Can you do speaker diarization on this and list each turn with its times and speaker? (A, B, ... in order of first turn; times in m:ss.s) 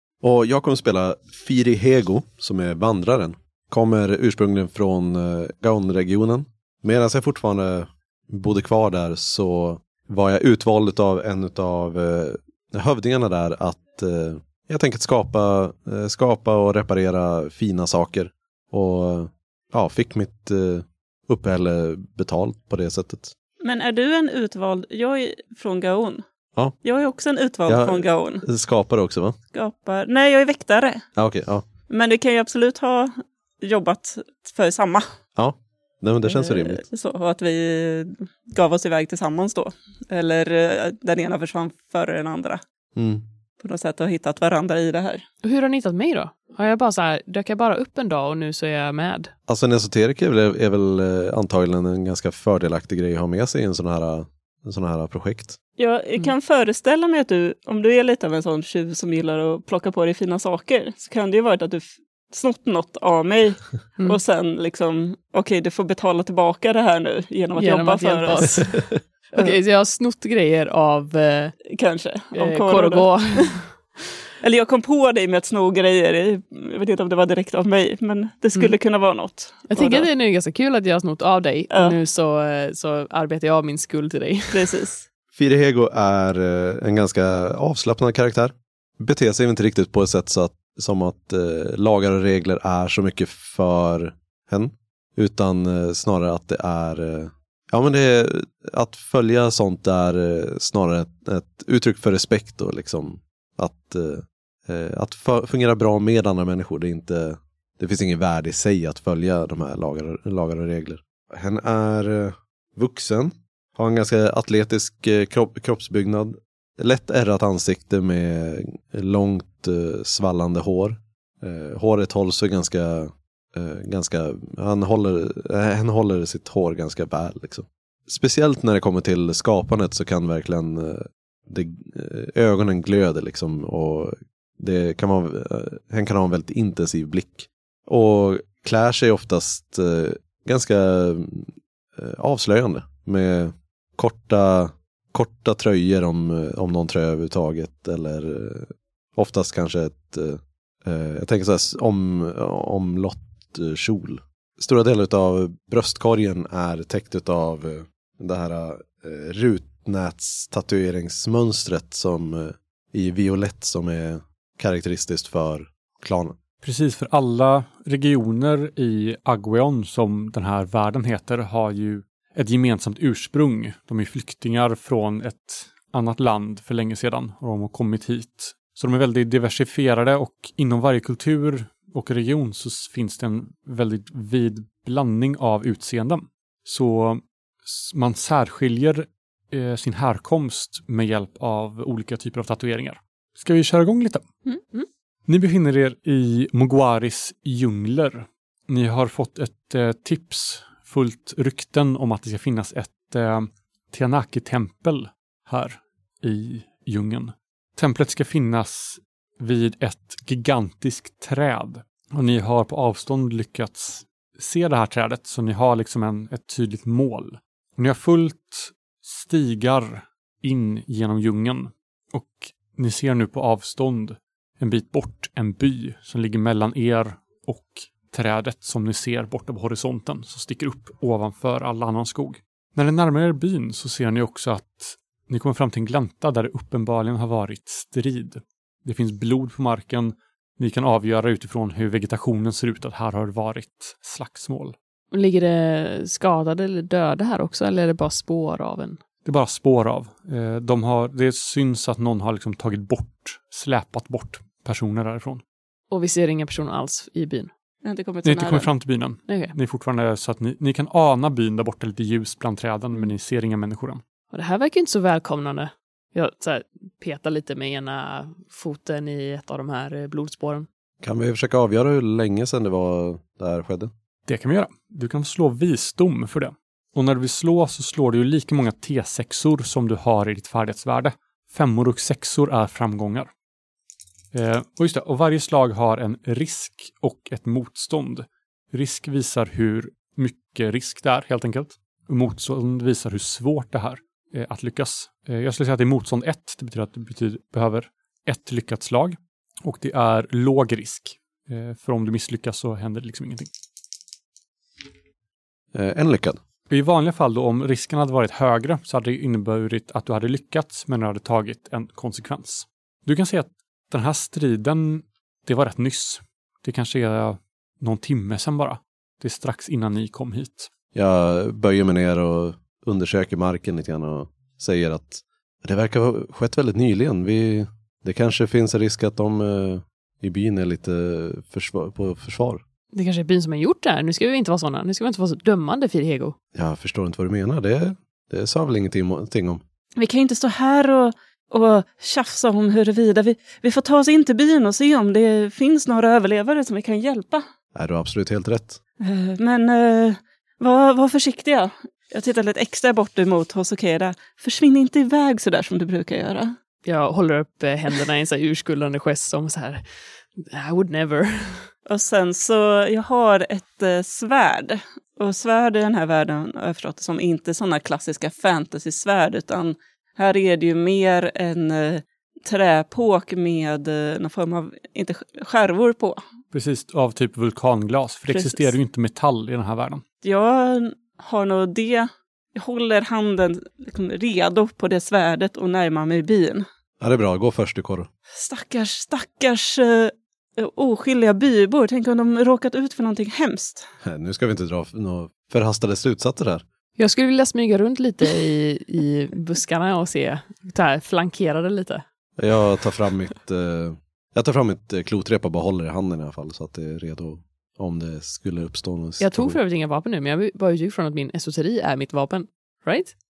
0:00.2-0:23.3 A
0:23.6-0:26.2 B
0:26.8-0:28.4 B
0:27.7-0:29.4 A
0:29.5-0:31.0 B
0:31.2-0:31.6 A
0:31.9-0:35.0 B
0:35.4-0:36.8 A
0:36.3-0:42.6 B
0:43.0-0:43.2 A
0:43.6-0:45.2 B
0:45.4-0:49.3 C
0:49.5-0:55.6 A
0:55.8-1:08.8 B
1:07.6-1:11.6 C
1:11.7-1:13.6 B
1:12.3-1:13.8 C
1:14.4-1:20.1 B
1:19.7-1:24.7 C
1:21.7-1:22.0 B
1:24.5-1:25.0 B
1:25.3-2:46.4 A
2:46.6-3:14.2 D
3:15.3-4:04.7 D
4:05.1-4:09.0 C
4:09.2-4:15.4 D
4:15.9-4:17.5 C
4:17.8-4:18.7 B
4:18.2-4:24.0 D
4:19.3-4:19.5 C
4:24.3-4:30.7 C
4:31.0-4:33.9 A
4:34.2-4:43.3 D
4:44.3-5:03.5 D
5:05.7-5:06.4 A
5:06.7-5:20.7 D
5:20.9-5:32.6 A
5:32.9-5:36.4 C
5:36.5-5:39.6 A
5:40.0-5:47.4 B
5:47.7-5:48.8 A
5:49.0-5:56.5 B
5:56.8-6:01.7 C
6:01.9-6:16.2 B
6:16.5-6:20.0 D
6:18.3-6:18.7 B
6:20.2-6:26.6 B
6:27.0-6:28.1 A
6:28.3-6:33.9 B
6:34.0-6:36.6 A
6:37.0-6:42.0 C
6:42.4-6:49.6 A
6:49.2-6:53.1 C